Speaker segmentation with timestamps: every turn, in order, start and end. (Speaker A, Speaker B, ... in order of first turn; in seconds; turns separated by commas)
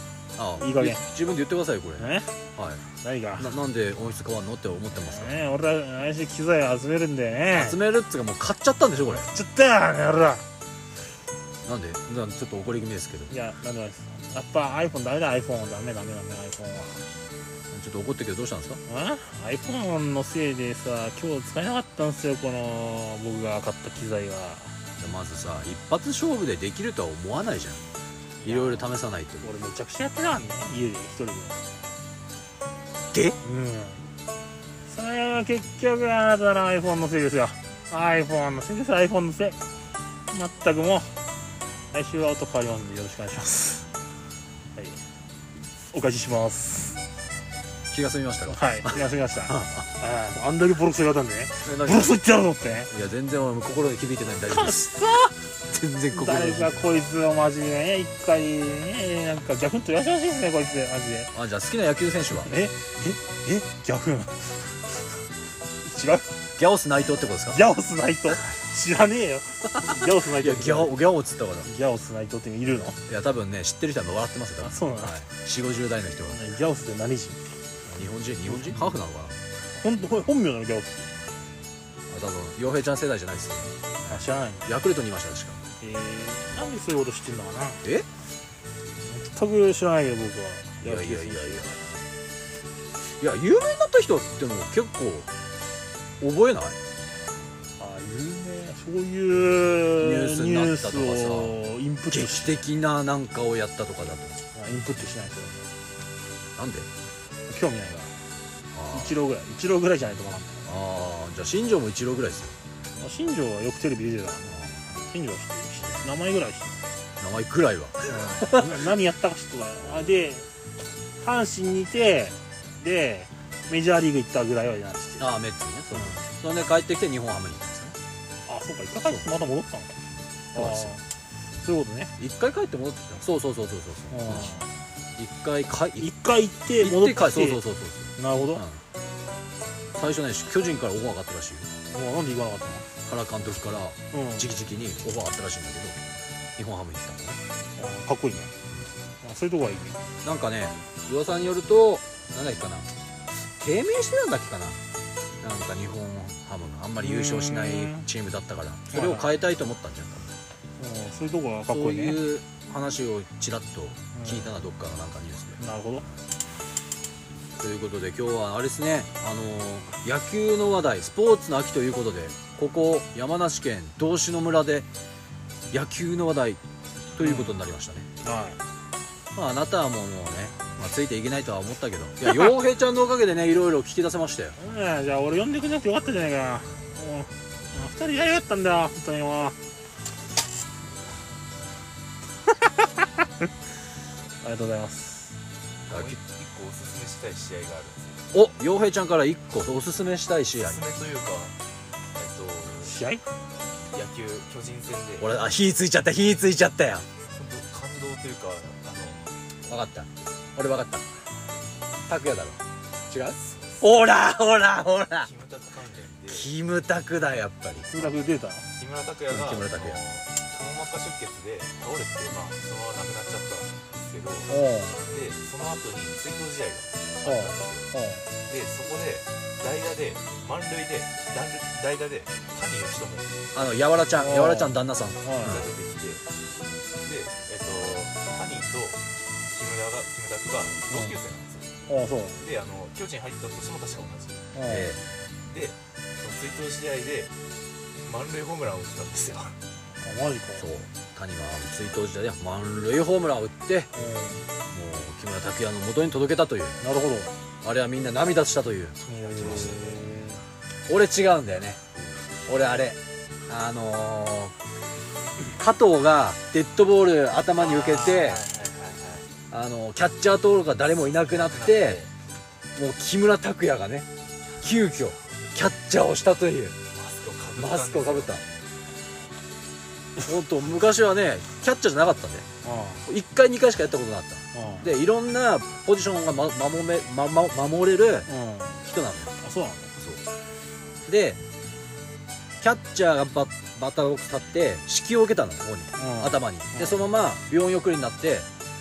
Speaker A: 0.3-2.8, Speaker B: 0.6-1.0, Speaker B: 2.0-2.3, Speaker B: 3.0-3.5, Speaker A: 3.4-5.3, Speaker B: 5.0-7.8, Speaker A: 7.5-9.3, Speaker B: 9.1-10.4, Speaker A: 11.6-13.3, Speaker B: 13.3-17.0, Speaker A: 17.7-18.8, Speaker B: 18.9-24.8, Speaker A: 25.0-27.8, Speaker B: 28.4-28.9, Speaker A: 28.4-29.5, Speaker B: 29.4-31.7, Speaker A: 33.1-33.4, Speaker B: 33.4-34.0, Speaker B: 34.9-39.6, Speaker B: 40.3-41.1, Speaker B: 41.9-43.8, Speaker B: 44.8-45.0, Speaker B: 45.9-47.0, Speaker A: 47.9-49.0, Speaker B: 48.5-52.9, Speaker A: 49.5-49.9, Speaker A: 51.6-52.2, Speaker A: 52.9-54.9, Speaker B: 54.5-55.3, Speaker A: 55.7-56.9, Speaker B: 56.1-61.3, Speaker A: 61.3-62.5, Speaker B: 62.4-64.7, Speaker B: 65.8-66.3, Speaker A: 66.6-67.6, Speaker B: 67.5-70.9, Speaker A: 69.8-71.7, Speaker B: 71.6-73.0, Speaker A: 73.1-76.4, Speaker B: 74.6-75.2, Speaker B: 76.3-77.6, Speaker A: 77.8-79.3, Speaker B: 78.5-79.0, Speaker B: 79.8-81.1, Speaker A: 82.1-85.6, Speaker B: 84.1-84.7, Speaker B: 85.8-87.8, Speaker B: 89.0-91.7, Speaker A: 90.8-91.8, Speaker A: 93.2-95.3, Speaker A: 96.2-96.8, Speaker B: 97.8-102.6, Speaker A: 100.0-101.5, Speaker A: 102.1-104.4, Speaker B: 104.5-105.7, Speaker A: 106.5-106.9, Speaker B: 107.5-108.1, Speaker A: 108.7-109.2, Speaker B: 108.9-110.7, Speaker A: 110.7-112.5, Speaker B: 113.0-116.8, Speaker A: 117.2-118.7, Speaker B: 118.1-120.5, Speaker B: 121.2-125.3, Speaker A: 125.2-128.0, Speaker B: 125.9-126.2, Speaker B: 128.5-130.0, Speaker A: 130.5-130.9, Speaker B: 130.5-131.0, Speaker B: 131.6-132.1, Speaker A: 132.2-134.5, Speaker B: 134.1-134.7, Speaker A: 135.2-136.1, Speaker B: 136.0-137.6, Speaker A: 136.8-138.8, Speaker B: 138.2-138.6, Speaker A: 139.9-141.7, Speaker B: 141.9-142.9, Speaker A: 143.1-146.0, Speaker B: 144.1-144.4, Speaker A: 146.6-147.4, Speaker B: 147.8-148.5, Speaker B: 149.2-150.0, Speaker A: 150.2-152.9, Speaker A: 153.6-154.8, Speaker A: 155.4-160.3, Speaker B: 157.0-158.1, Speaker B: 158.9-159.3, Speaker B: 160.8-162.2, Speaker A: 161.7-165.6, Speaker B: 164.1-164.5, Speaker B: 165.6-166.1, Speaker A: 167.6-174.9, Speaker A: 175.7-176.6, Speaker A: 177.1-178.1, Speaker B: 177.2-177.6, Speaker B: 178.2-178.6, Speaker A: 179.3-184.6, Speaker B: 184.6-189.6, Speaker B: 194.4-195.3, Speaker C: 195.8-198.3, Speaker A: 195.9-196.2, Speaker A: 198.3-200.8, Speaker C: 200.5-201.6, Speaker C: 202.1-203.0, Speaker B: 202.8-203.2, Speaker C: 203.9-205.3, Speaker A: 205.2-207.1, Speaker C: 207.3-209.2, Speaker A: 209.7-211.1, Speaker A: 212.1-215.3, Speaker C: 213.5-213.8, Speaker C: 215.2-216.5, Speaker A: 216.3-217.9, Speaker B: 217.9-218.7, Speaker C: 218.7-227.9, Speaker A: 219.3-220.0, Speaker B: 224.5-225.0, Speaker B: 227.2-228.2, Speaker C: 228.5-233.4, Speaker A: 233.5-235.6, Speaker B: 234.2-235.6, Speaker C: 235.4-236.2, Speaker C: 237.0-241.8, Speaker B: 240.9-241.2, Speaker B: 241.9-242.4, Speaker C: 242.3-244.5, Speaker B: 244.5-245.0, Speaker A: 244.7-245.0, Speaker C: 245.4-247.3, Speaker C: 248.0-249.6, Speaker B: 250.0-250.7, Speaker A: 250.6-253.9, Speaker B: 253.9-254.5, Speaker A: 254.7-256.8, Speaker B: 256.8-257.3, Speaker A: 257.6-259.0, Speaker B: 259.1-260.4, Speaker C: 259.1-260.0, Speaker A: 260.9-261.8, Speaker A: 262.5-264.5, Speaker A: 265.5-268.4, Speaker C: 267.7-269.2, Speaker A: 269.5-272.0, Speaker C: 271.2-272.1, Speaker A: 272.7-274.1, Speaker A: 274.6-276.8, Speaker C: 276.9-278.4, Speaker A: 277.6-278.4, Speaker A: 280.2-282.5, Speaker B: 282.6-283.1, Speaker A: 283.1-288.3, Speaker B: 284.5-284.9, Speaker B: 288.3-288.8, Speaker A: 288.8-289.3, Speaker B: 289.4-289.9, Speaker A: 290.0-290.2, Speaker A: 291.1-291.4, Speaker A: 292.6-298.5, Speaker B: 295.9-297.1